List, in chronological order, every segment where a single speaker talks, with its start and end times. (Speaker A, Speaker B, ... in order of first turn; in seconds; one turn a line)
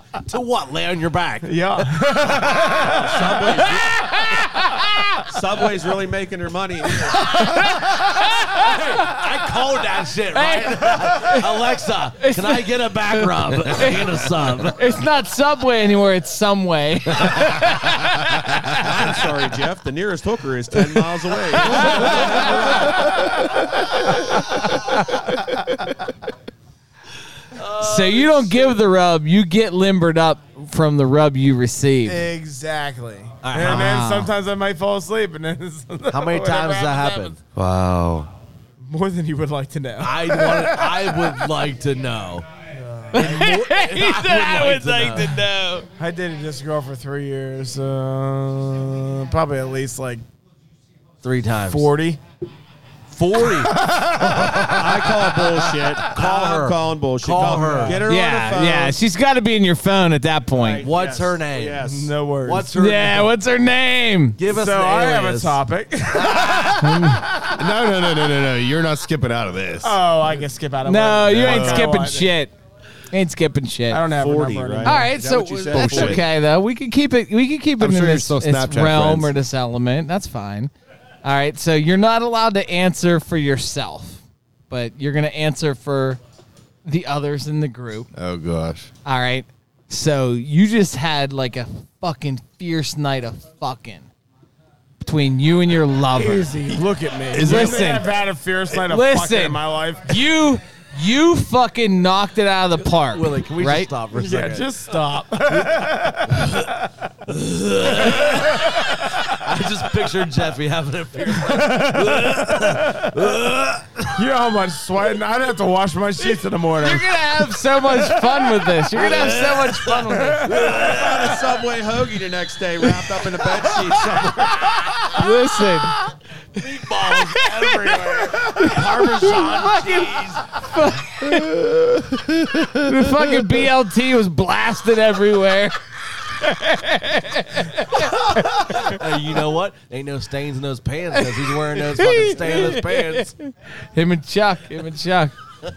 Speaker A: 0.2-1.5
Speaker B: 1.4-3.6
Speaker C: 2.3-4.1
Speaker D: 3.8-5.2
Speaker C: 5.3-7.3
Speaker D: 7.0-9.2
Speaker A: 8.5-14.8
Speaker D: 10.3-11.5
Speaker D: 12.2-18.8
Speaker C: 18.7-23.5
Speaker D: 21.6-22.5
Speaker A: 21.7-22.4
Speaker A: 27.6-28.8
Speaker D: 27.8-32.2
Speaker B: 32.0-37.3
Speaker A: 33.4-34.0
Speaker D: 33.5-34.3
Speaker A: 36.1-37.4
Speaker E: 37.5-38.3
Speaker B: 38.9-41.3
Speaker A: 40.0-42.5
Speaker B: 42.7-43.6
Speaker D: 43.1-45.9
Speaker A: 43.1-45.4
Speaker B: 46.0-50.2
Speaker A: 51.2-51.9
Speaker B: 51.7-52.2
Speaker A: 53.1-53.8
Speaker E: 54.0-54.7
Speaker A: 54.3-54.6
Speaker C: 54.7-59.0
Speaker A: 56.1-58.0
Speaker D: 58.0-60.9
Speaker C: 60.5-62.1
Speaker A: 60.8-61.9
Speaker B: 61.8-62.7
Speaker A: 62.4-63.3
Speaker D: 62.7-64.4
Speaker A: 64.4-65.6
Speaker B: 64.5-67.4
Speaker A: 66.1-66.7
Speaker D: 66.7-67.2
Speaker E: 67.5-70.0
Speaker B: 69.8-72.3
Speaker D: 70.8-72.5
Speaker E: 71.4-71.9
Speaker D: 73.1-74.1
Speaker B: 73.9-75.0
Speaker C: 74.1-76.3
Speaker D: 74.8-80.7
Speaker E: 75.7-76.2
Speaker E: 77.8-79.3
Speaker D: 81.2-86.2
Speaker D: 86.8-88.1
Speaker E: 88.1-88.9
Speaker D: 89.0-94.1
Speaker D: 95.0-96.5
Speaker B: 96.1-100.2
Speaker E: 97.3-97.9
Speaker D: 97.4-98.2
Speaker D: 98.7-103.9
Speaker A: 102.8-104.7
Speaker B: 104.1-106.8
Speaker A: 106.3-106.7
Speaker A: 107.3-114.2
Speaker B: 107.9-109.2
Speaker B: 111.3-113.2
Speaker B: 114.1-117.1
Speaker D: 116.8-120.7
Speaker A: 118.9-121.5
Speaker B: 120.1-120.7
Speaker C: 120.7-125.0
Speaker D: 125.1-126.0
Speaker A: 126.5-130.6
Speaker D: 127.1-127.9
Speaker D: 128.5-131.7
Speaker D: 132.7-139.0
Speaker A: 138.7-143.3
Speaker D: 141.7-145.3